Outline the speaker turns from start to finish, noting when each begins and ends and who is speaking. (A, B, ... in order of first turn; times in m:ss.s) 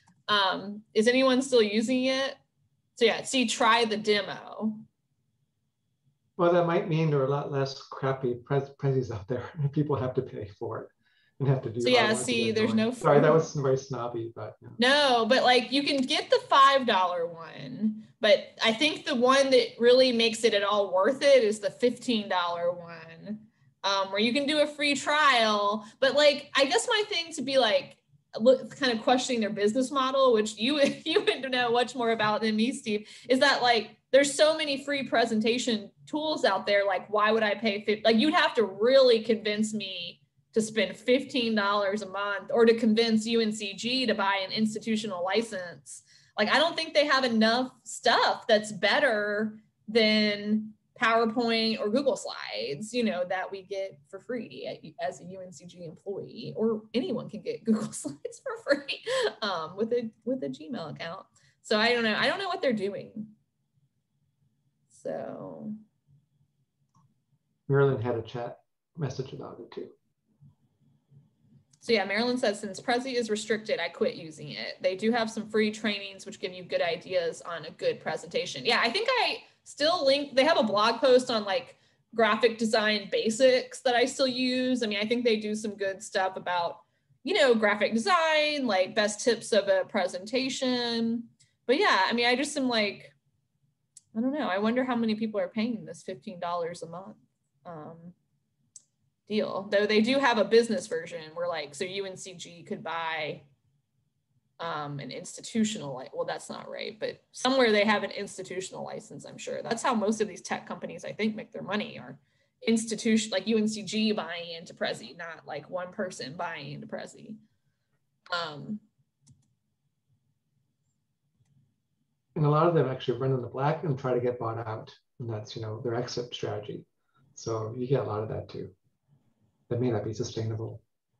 0:00.3-0:02.4 A
0:03.0-0:04.8 A
0:06.4-0:14.8 B
0:11.8-0:13.4 A
0:14.8-1:03.3 A
1:04.9-1:05.8 A
1:07.7-1:09.9 B
1:11.8-1:33.1 A
1:34.1-1:38.1 A
1:39.3-1:43.4 A
1:44.6-1:57.4 A
1:58.3-1:58.8 A
2:02.3-2:08.7 B
2:09.7-2:10.8 B